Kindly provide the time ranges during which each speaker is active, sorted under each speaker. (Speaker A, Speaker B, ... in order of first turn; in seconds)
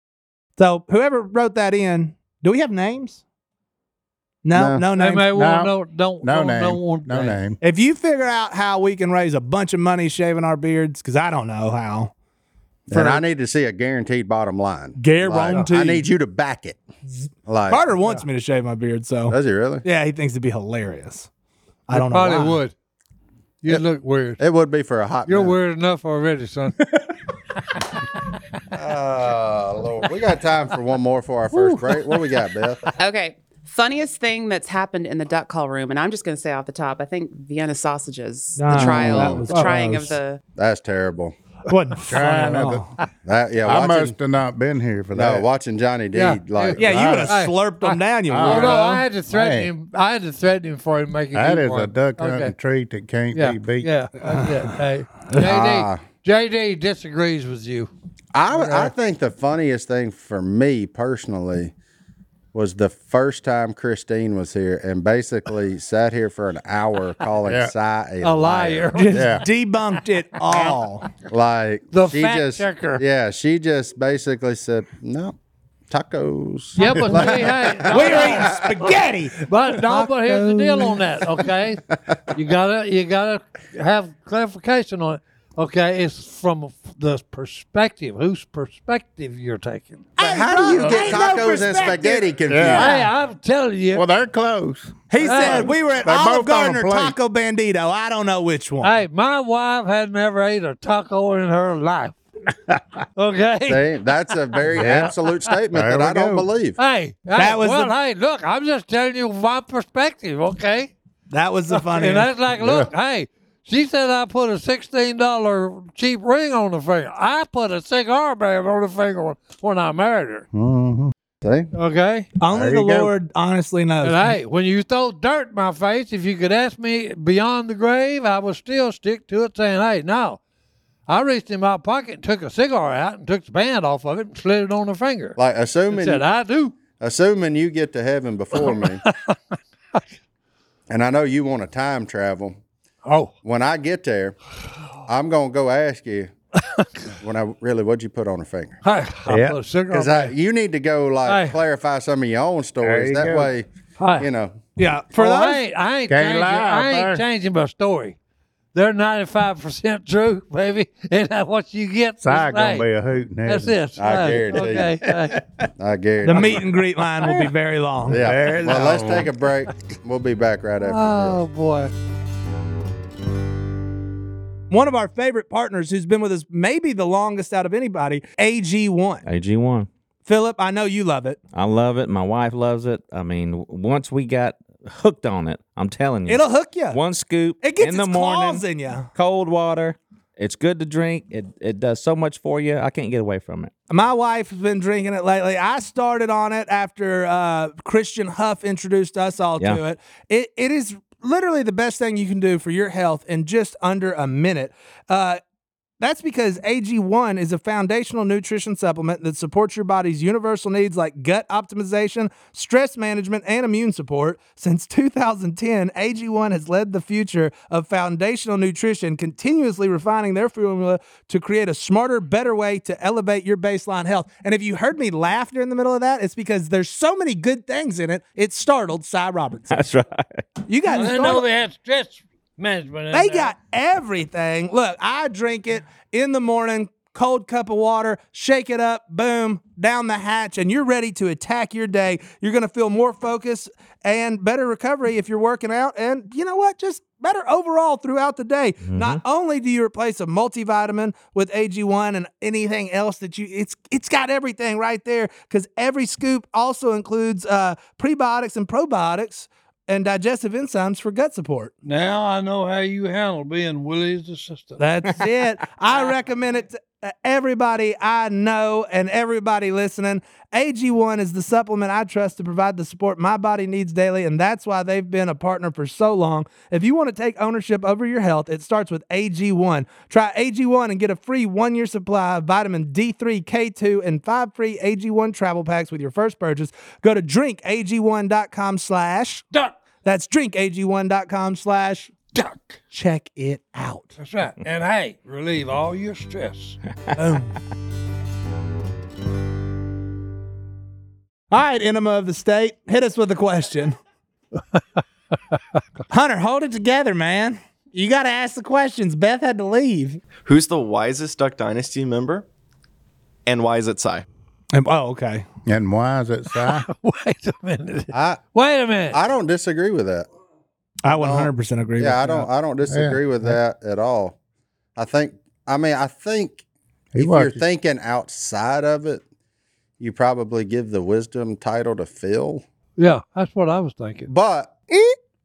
Speaker A: 0.6-3.2, 4.5-5.3, 7.6-12.1, 12.9-13.2, 15.0-16.1, 17.2-21.3, 21.9-22.6, 38.6-40.1, 41.7-42.9, 46.8-49.0, 69.0-71.1, 77.9-81.0, 90.2-92.4, 95.1-99.0, 107.4-107.9, 111.3-112.3, 122.4-124.3, 154.8-155.6, 166.3-168.2, 174.7-179.2, 180.3-181.4, 186.3-187.0, 187.6-189.1, 193.9-205.4, 206.0-229.8, 230.7-231.4, 233.1-261.7, 264.8-289.5, 290.0-292.1, 292.9-294.2, 301.5-304.0, 306.1-310.2, 314.7-315.4, 321.1-322.5
Speaker B: 4.5-4.8, 12.9-16.8, 17.5-17.8, 19.3-19.8, 24.4-25.6, 28.7-32.9, 38.7-39.5, 40.6-41.4, 43.2-44.1, 45.1-47.2, 55.3-56.0, 58.3-61.7, 62.5-69.0, 71.3-75.3, 75.9-78.8, 90.2-92.9, 103.7-106.8, 121.4-121.7, 135.4-136.2, 137.0-139.0, 140.9-142.6, 143.4-144.4, 145.1-146.3, 147.2-148.8, 149.9-153.7, 154.2-154.6, 164.0-165.2, 165.8-166.6, 168.1-171.4, 318.1-318.4, 319.1-320.3, 321.1-324.4, 325.0-326.6, 327.2-329.2, 330.0-332.6, 334.3-334.8
Speaker C: 5.0-7.4, 21.9-22.7, 23.6-24.4, 25.3-26.8, 31.6-31.9, 46.1-52.5, 53.4-57.9, 68.2-69.3, 71.9-73.0, 76.8-90.0, 92.7-94.0, 95.2-95.7, 98.8-102.2, 103.2-103.9, 106.8-110.9, 111.7-120.5, 121.7-122.3, 124.0-130.4, 131.1-135.4, 135.9-136.8, 138.6-139.4, 143.1-143.3, 148.8-150.3, 151.3-151.6, 154.0-154.3, 155.2-158.2, 158.7-162.9, 163.5-165.4, 170.8-171.9, 230.9-233.5, 261.9-264.8, 292.4-292.7, 294.2-297.5, 316.6-319.2, 333.0-334.3
Speaker D: 5.3-7.6, 42.1-42.9, 43.6-45.5, 46.8-47.4, 48.3-49.7, 51.3-54.4, 67.5-67.7, 69.1-69.4, 76.9-77.4, 92.5-93.1, 93.9-97.2, 104.7-105.2, 105.7-106.5, 112.6-112.9, 120.5-121.1, 122.5-123.1, 149.3-149.6, 152.8-153.5, 156.1-157.2, 162.2-163.8, 168.2-169.3, 315.7-316.9, 322.9-323.6, 327.1-327.6
Speaker E: 33.0-40.4
Speaker F: 179.2-179.9, 181.5-188.6, 189.2-193.7, 229.7-230.4, 248.8-249.2
Speaker G: 310.4-312.5, 313.5-314.2